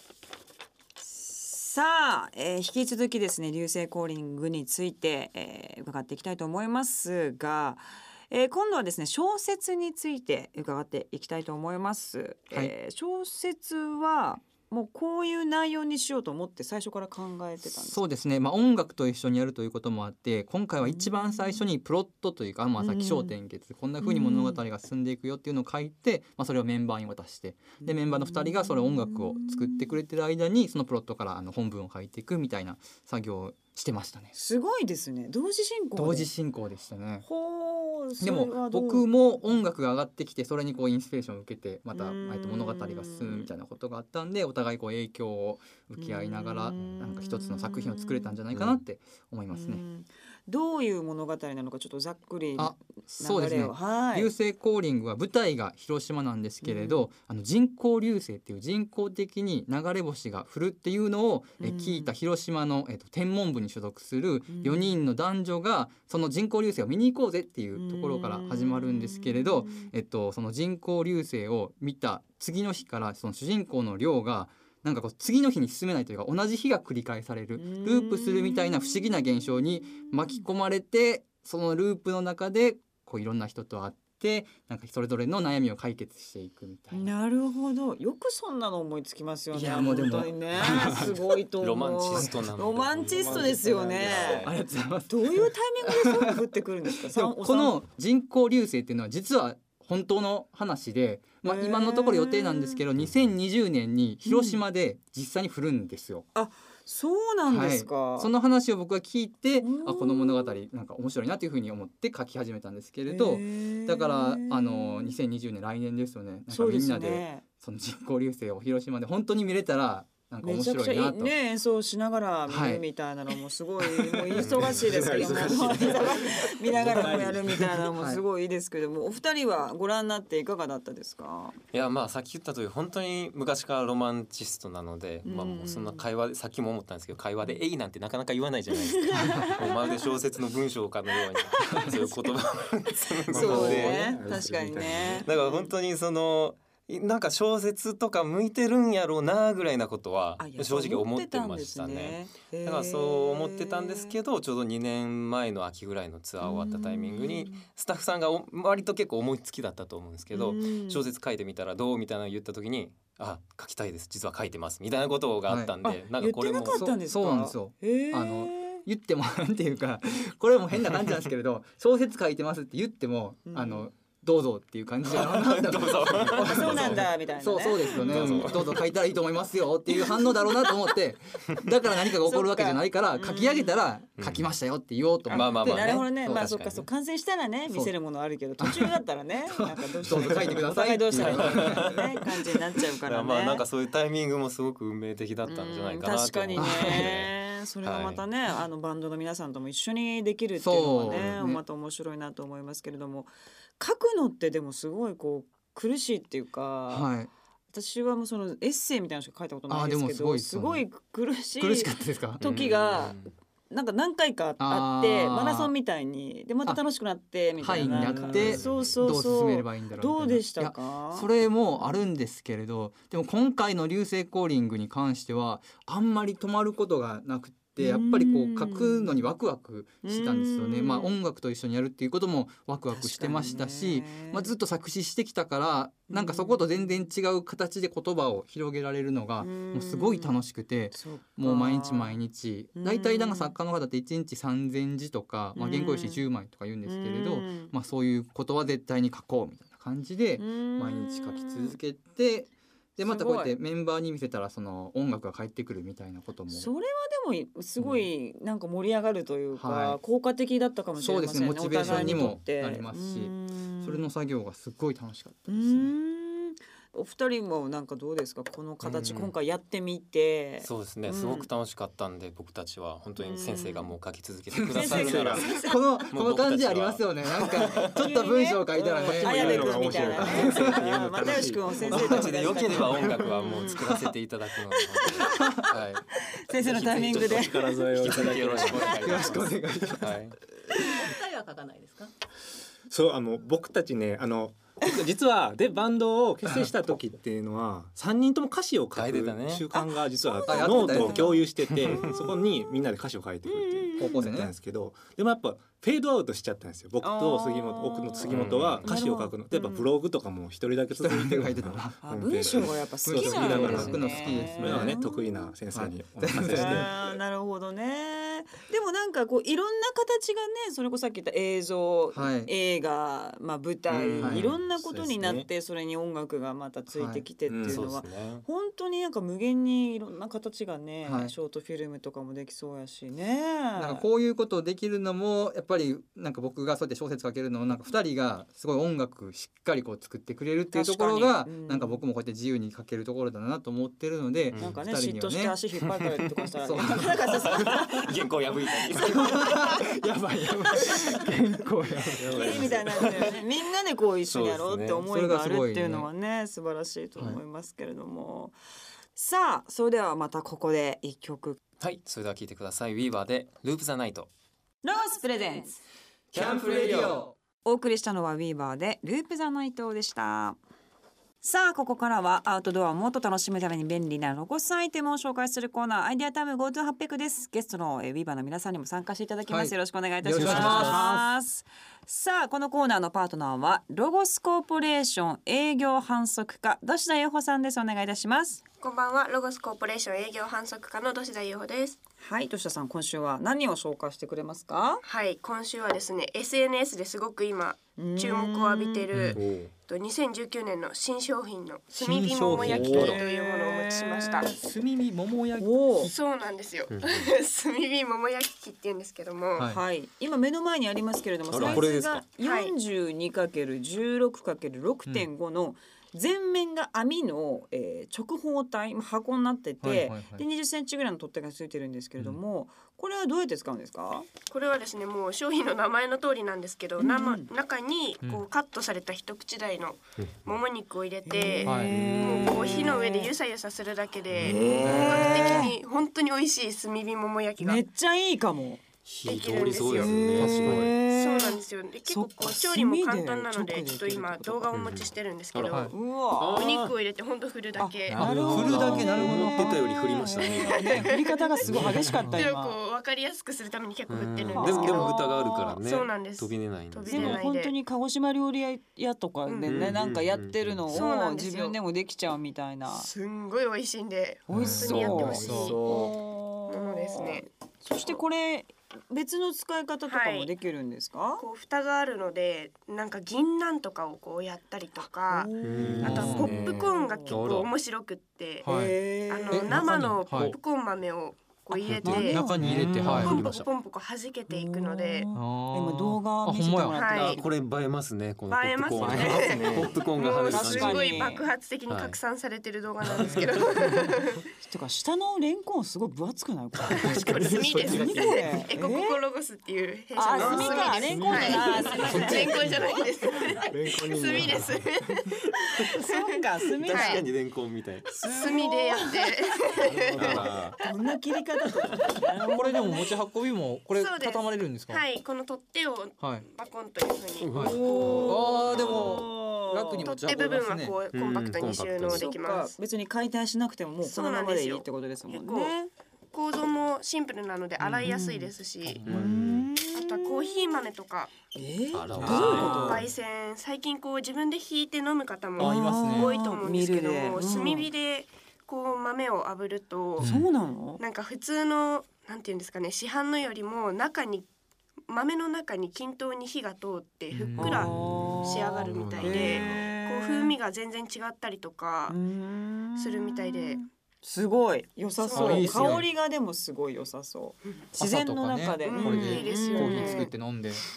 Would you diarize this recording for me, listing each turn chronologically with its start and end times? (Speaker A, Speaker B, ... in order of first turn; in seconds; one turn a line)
Speaker A: 1.0-18.0
Speaker B: 17.6-34.3
Speaker A: 20.8-21.6
Speaker A: 22.8-23.4
Speaker A: 24.0-24.6
Speaker A: 27.8-30.0
Speaker A: 34.3-36.3
Speaker B: 36.0-37.2
Speaker A: 37.2-39.1
Speaker B: 38.2-49.8
Speaker A: 41.9-43.5
Speaker A: 46.0-48.4
Speaker A: 49.5-54.3
Speaker B: 52.6-87.1
Speaker A: 56.6-57.1
Speaker A: 61.6-62.1
Speaker A: 64.5-65.0
Speaker A: 67.8-69.9
Speaker A: 77.6-80.4
Speaker A: 86.9-94.5
Speaker B: 89.5-91.2
Speaker C: 90.8-91.1
Speaker C: 91.6-94.5
Speaker B: 92.1-92.5
Speaker D: 93.0-94.5
Speaker B: 94.4-96.5
Speaker A: 95.1-97.8
Speaker B: 97.0-106.3
Speaker A: 101.4-102.8
Speaker A: 104.2-104.6
Speaker A: 106.3-108.3
Speaker B: 107.5-121.3
Speaker A: 109.6-110.6
Speaker A: 113.1-115.2
Speaker A: 116.5-117.4
Speaker A: 120.4-131.6
Speaker B: 122.5-122.8
Speaker B: 123.8-124.3
Speaker D: 124.3-127.8
Speaker C: 124.4-124.9
Speaker B: 127.9-128.2
Speaker C: 131.7-144.2
Speaker A: 135.2-136.1
Speaker A: 138.9-140.1
Speaker B: 139.3-139.5
Speaker A: 141.3-145.7
Speaker D: 143.3-145.3
Speaker C: 145.2-166.8
Speaker A: 150.4-154.2
Speaker A: 156.4-157.7
Speaker A: 160.3-161.1
Speaker B: 165.5-165.8
Speaker A: 165.8-168.8
Speaker B: 166.7-186.5
Speaker A: 173.5-173.9
Speaker C: 175.1-177.1
Speaker A: 176.3-178.8
Speaker C: 177.9-178.8
Speaker A: 179.9-180.9
Speaker A: 181.9-183.8
Speaker C: 184.2-184.5
Speaker C: 185.3-186.9
Speaker A: 185.3-193.6
Speaker B: 188.6-192.1
Speaker C: 190.1-190.4
Speaker C: 191.1-192.2
Speaker C: 193.0-198.2
Speaker A: 195.5-207.1
Speaker B: 196.6-197.1
Speaker B: 200.6-201.6
Speaker B: 206.9-207.3
Speaker A: 207.7-222.0
Speaker B: 209.7-210.8
Speaker B: 211.6-212.4
Speaker C: 212.4-213.3
Speaker B: 214.6-215.7
Speaker B: 217.6-256.7
Speaker C: 218.1-219.0
Speaker A: 227.8-229.3
Speaker A: 230.0-231.2
Speaker A: 232.9-234.5
Speaker A: 236.1-237.1
Speaker A: 239.4-240.4
Speaker A: 240.9-242.2
Speaker A: 242.8-243.6
Speaker A: 245.6-246.3
Speaker A: 246.8-247.7
Speaker A: 250.4-251.8
Speaker A: 253.0-253.6
Speaker A: 256.5-264.1
Speaker B: 259.6-260.0
Speaker B: 261.0-265.9
Speaker C: 261.8-262.4
Speaker A: 265.5-271.5
Speaker C: 268.8-269.3
Speaker C: 270.6-277.9
Speaker A: 273.2-273.9
Speaker B: 274.5-280.8
Speaker A: 274.7-275.8
Speaker A: 277.4-283.9
Speaker D: 278.9-281.9
Speaker C: 280.3-280.8
Speaker C: 281.8-290.4
Speaker B: 281.8-282.5
Speaker B: 283.6-284.1
Speaker A: 284.7-287.9
Speaker B: 285.2-285.6
Speaker D: 286.6-289.2
Speaker A: 288.7-289.2
Speaker B: 289.0-292.1
Speaker D: 292.9-316.9
Speaker C: 298.9-299.7
Speaker A: 299.7-302.4
Speaker B: 300.5-301.4
Speaker A: 303.5-304.3
Speaker B: 304.0-304.5
Speaker A: 307.0-308.3
Speaker C: 308.3-308.9
Speaker A: 308.8-309.9
Speaker B: 311.0-315.0
Speaker A: 312.0-315.5
Speaker C: 313.6-314.0
Speaker B: 315.7-316.9
Speaker A: 316.4-334.1
Speaker B: 322.1-322.5
Speaker D: 323.9-325.5
Speaker B: 324.2-324.5
Speaker B: 326.9-327.2
Speaker D: 327.5-327.9
Speaker C: 327.6-328.4
Speaker B: 331.1-331.3
Speaker B: 333.8-345.6
Speaker A: 340.7-342.0
Speaker C: 344.5-344.8
Speaker A: 344.6-348.1
Speaker B: 346.6-347.8
Speaker C: 346.8-349.7
Speaker B: 349.0-353.1
Speaker A: 349.1-349.8
Speaker D: 352.2-353.1
Speaker A: 352.3-358.6
Speaker C: 354.2-355.1
Speaker B: 355.1-356.1
Speaker A: 359.1-361.6
Speaker C: 361.8-364.3
Speaker A: 364.8-365.8
Speaker C: 366.3-367.2
Speaker B: 366.3-367.4
Speaker A: 367.6-370.6
Speaker A: 371.4-388.6
Speaker B: 379.5-381.3
Speaker C: 380.4-381.1
Speaker E: 388.8-392.0
Speaker A: 392.2-395.0
Speaker E: 395.0-404.5
Speaker A: 398.0-399.1
Speaker D: 399.4-399.7
Speaker B: 402.0-403.2
Speaker A: 402.6-404.5
Speaker C: 402.7-403.2
Speaker B: 404.3-406.1
Speaker A: 405.6-406.1
Speaker E: 406.0-409.7
Speaker C: 406.9-407.3
Speaker A: 409.6-424.3
Speaker C: 411.5-412.2
Speaker E: 412.4-412.7
Speaker B: 419.8-420.5
Speaker E: 424.4-437.8
Speaker A: 427.0-427.5
Speaker C: 430.2-430.5
Speaker A: 431.2-433.3
Speaker B: 431.6-432.0
Speaker C: 431.9-432.7
Speaker A: 434.4-435.8
Speaker B: 434.8-435.4
Speaker A: 437.6-438.8
Speaker C: 439.1-441.0
Speaker E: 439.2-440.2
Speaker A: 439.9-444.7
Speaker B: 440.4-440.9
Speaker E: 441.0-448.8
Speaker C: 444.7-446.9
Speaker B: 445.6-445.9
Speaker A: 445.9-446.6
Speaker A: 447.8-452.8
Speaker C: 448.1-452.2
Speaker B: 448.2-450.0
Speaker E: 450.9-451.4
Speaker E: 452.4-457.8
Speaker C: 454.1-457.4
Speaker A: 454.5-455.7
Speaker A: 457.1-463.1
Speaker E: 459.5-460.0
Speaker C: 459.7-461.1
Speaker E: 460.9-461.8
Speaker E: 462.9-466.1
Speaker A: 464.5-471.4
Speaker B: 464.5-465.8
Speaker D: 464.8-466.2
Speaker E: 466.7-467.5
Speaker E: 470.1-470.5
Speaker E: 471.4-485.3
Speaker A: 475.3-477.4
Speaker C: 475.6-477.7
Speaker D: 475.8-476.8
Speaker B: 476.0-476.6
Speaker B: 478.6-478.9
Speaker A: 478.6-479.9
Speaker B: 479.5-480.6
Speaker C: 480.2-480.6
Speaker C: 481.8-483.7
Speaker B: 482.0-483.4
Speaker A: 482.1-483.4
Speaker A: 484.5-487.5
Speaker B: 485.3-487.0
Speaker E: 486.9-487.4
Speaker C: 487.2-492.2
Speaker E: 488.5-494.4
Speaker D: 488.9-490.0
Speaker A: 489.2-489.5
Speaker A: 490.4-491.5
Speaker C: 493.1-493.6
Speaker A: 494.6-499.2
Speaker C: 496.9-498.5
Speaker E: 496.9-506.3
Speaker A: 500.1-502.7
Speaker D: 500.4-502.9
Speaker C: 501.6-502.2
Speaker D: 503.5-505.2
Speaker A: 505.8-507.3
Speaker C: 506.8-508.1
Speaker E: 506.9-507.2
Speaker A: 508.1-509.4
Speaker E: 508.2-510.9
Speaker B: 509.9-510.6
Speaker C: 510.1-510.8
Speaker A: 510.8-513.1
Speaker B: 512.5-515.0
Speaker E: 512.8-513.1
Speaker E: 513.9-519.2
Speaker B: 516.2-516.5
Speaker C: 517.4-518.9
Speaker A: 517.5-520.1
Speaker B: 518.2-521.0
Speaker E: 520.0-522.7
Speaker C: 521.1-522.3
Speaker A: 522.0-525.9
Speaker E: 524.0-525.8
Speaker E: 526.3-529.1
Speaker A: 528.0-528.5
Speaker B: 528.8-529.3
Speaker C: 529.1-529.7
Speaker A: 529.1-530.9
Speaker E: 529.8-531.4
Speaker A: 531.5-533.0
Speaker C: 531.9-533.1
Speaker B: 532.1-532.9
Speaker E: 532.2-540.3
Speaker B: 535.6-536.3
Speaker A: 535.6-537.9
Speaker A: 540.2-541.0
Speaker B: 540.2-540.5
Speaker E: 541.0-544.5
Speaker E: 545.1-552.2
Speaker B: 547.3-548.3
Speaker A: 547.5-550.6
Speaker C: 548.9-549.5
Speaker D: 549.1-549.3
Speaker B: 549.2-549.5
Speaker A: 552.1-560.3
Speaker E: 553.0-553.8
Speaker E: 555.2-556.0
Speaker B: 555.4-556.1
Speaker B: 558.0-560.8
Speaker E: 558.8-560.3